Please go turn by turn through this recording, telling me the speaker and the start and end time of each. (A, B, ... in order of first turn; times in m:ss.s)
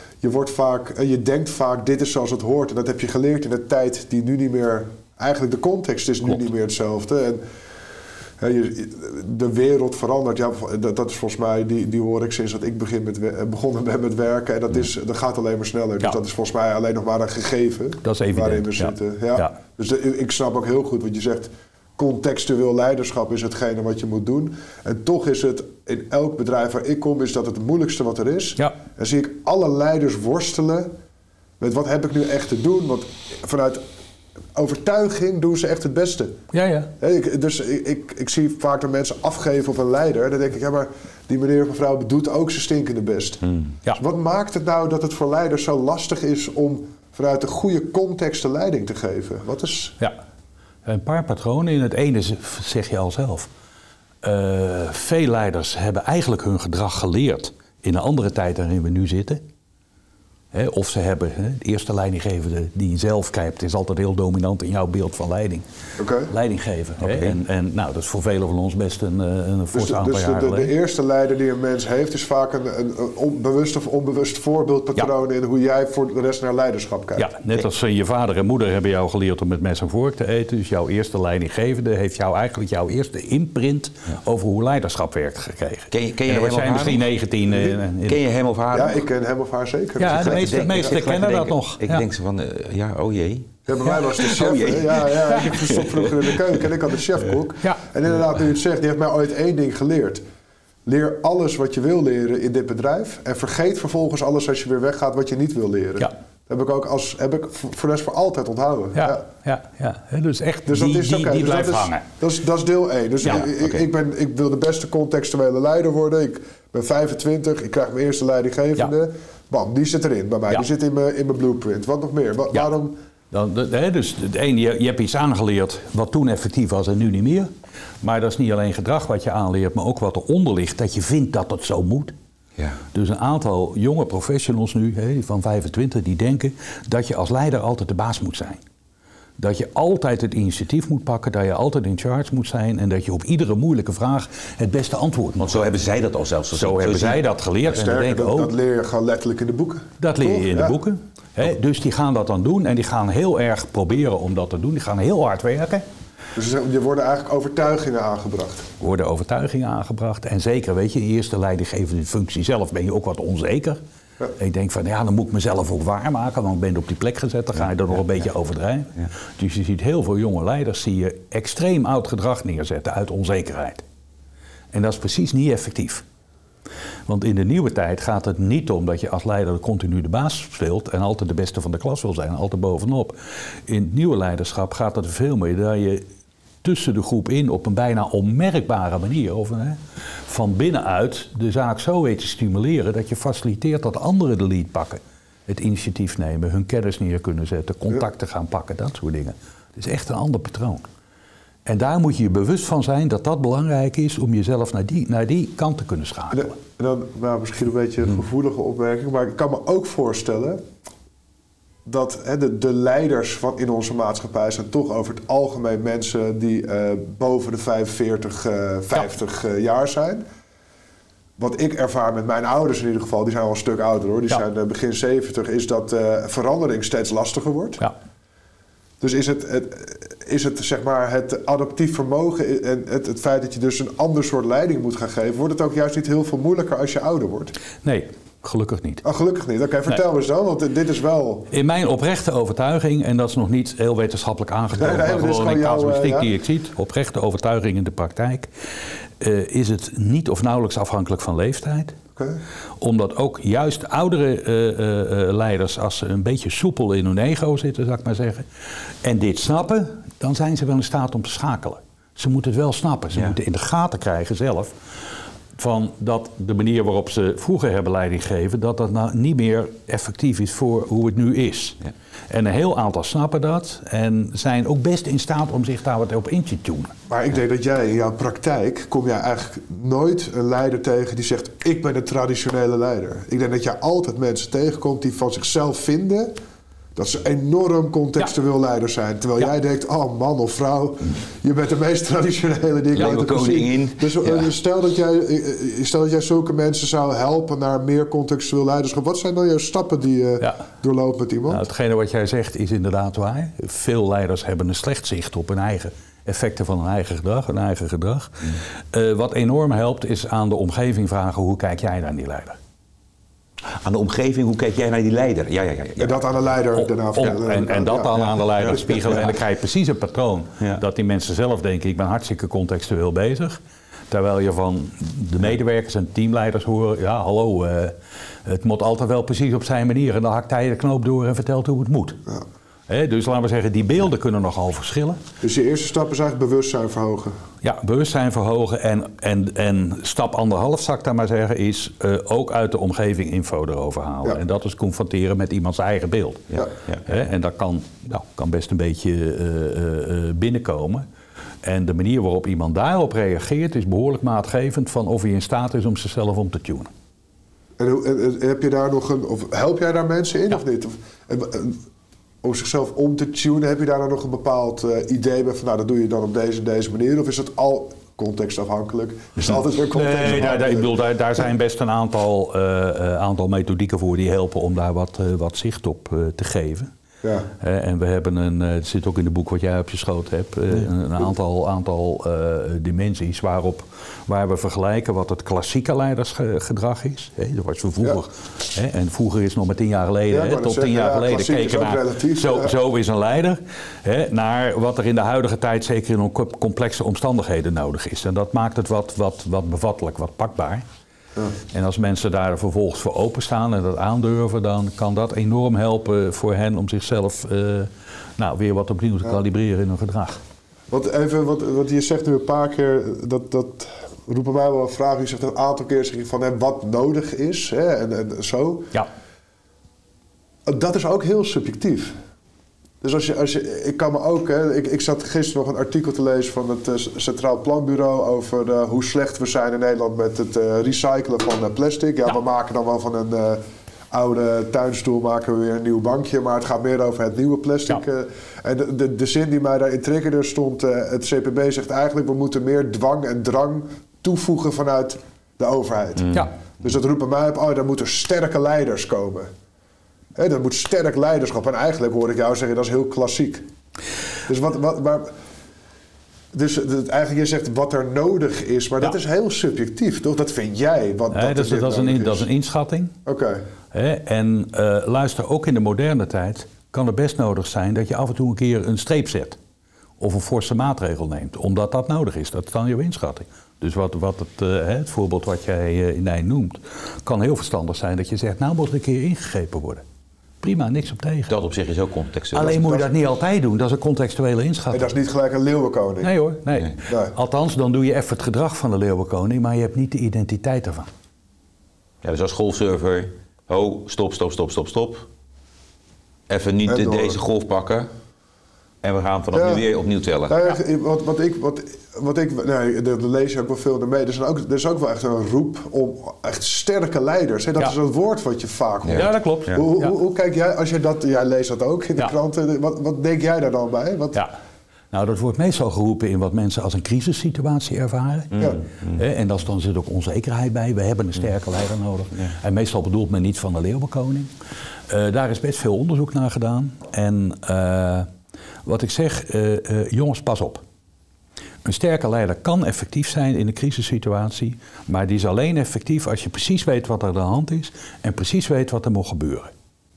0:00.2-0:07.4 A
0:08.4-0:30.9 A
0:18.0-0:19.6 B
0:31.6-0:33.8 A
0:34.5-0:36.4 A
0:36.5-0:36.9 B
0:37.0-0:43.4 A
0:44.0-0:50.0 A
0:50.8-0:53.5 B
0:54.2-0:59.4 B
1:00.5-1:05.6 B
1:06.0-1:06.3 A
1:06.3-1:10.7 B
1:07.0-1:07.3 C
1:09.7-1:17.3 A
1:17.2-1:28.2 B
1:25.9-1:27.1 C
1:28.1-1:29.0 C
1:28.7-1:30.8 A
1:30.0-1:32.0 B
1:30.1-1:36.6 C
1:33.7-1:40.2 A
1:40.8-1:49.2 A
1:49.0-1:52.0 B
1:50.6-2:02.9 A
1:53.2-1:53.5 B
2:03.3-2:07.5 B
2:08.0-2:12.1 B
2:12.9-2:18.6 B
2:19.4-2:25.6 B
2:25.4-2:27.2 C
2:26.5-2:28.5 B
2:27.6-2:30.8 A
2:30.0-2:35.8 B
2:36.3-2:38.7 A
2:38.8-2:43.8 B
2:44.4-2:53.8 B
2:54.7-2:56.0 B
2:57.1-3:03.1 B
3:03.7-3:06.0 B
3:06.6-3:20.9 B
3:21.6-3:26.5 B
3:26.3-3:30.6 A
3:31.8-3:40.2 A
3:41.4-3:47.8 A
3:49.0-3:57.5 A
3:57.8-3:59.0 B
3:59.0-4:01.5 A
4:01.5-4:08.5 B
4:04.7-4:06.4 A
4:09.2-4:12.0 B
4:12.8-4:18.4 B
4:19.0-4:24.7 B
4:25.5-4:31.8 B
4:32.3-4:36.9 B
4:37.1-4:46.3 A
4:47.0-5:01.6 A
4:52.9-4:54.5 C
5:01.5-5:12.6 B
5:13.7-5:16.3 C
5:16.0-5:19.2 A
5:16.7-5:32.2 B
5:32.9-5:35.2 B
5:35.4-5:37.4 A
5:37.6-5:46.5 B
5:46.5-5:47.0 C
5:47.0-5:51.1 B
5:51.6-5:56.9 B
5:57.8-6:01.8 A
6:02.4-6:10.9 A
6:09.4-6:16.9 B
6:17.2-6:17.5 A
6:17.6-6:40.8 B
6:30.3-6:32.7 A
6:41.7-6:50.4 B
6:50.9-6:58.9 A
7:00.6-7:02.1 A
7:03.0-7:29.5 A
7:30.3-7:33.6 A
7:34.5-7:35.4 A
7:36.5-7:42.5 A
7:41.3-7:43.2 B
7:43.2-7:43.6 A
7:43.9-7:49.6 B
7:50.2-8:00.0 B
8:00.6-8:01.5 B
8:01.5-8:02.9 C
8:02.5-8:05.1 B
8:02.7-8:03.1 A
8:04.9-8:06.3 A
8:06.2-8:11.1 B
8:07.1-8:07.3 A
8:12.2-8:15.2 C
8:16.5-8:18.1 C
8:16.9-8:17.4 A
8:19.0-8:20.6 C
8:19.5-8:19.8 A
8:20.5-8:34.4 A
8:29.0-8:29.8 C
8:29.2-8:30.1 B
8:35.1-8:44.5 B
8:38.5-8:39.2 C
8:45.1-8:48.3 B
8:48.8-8:50.8 B
8:51.8-8:59.7 B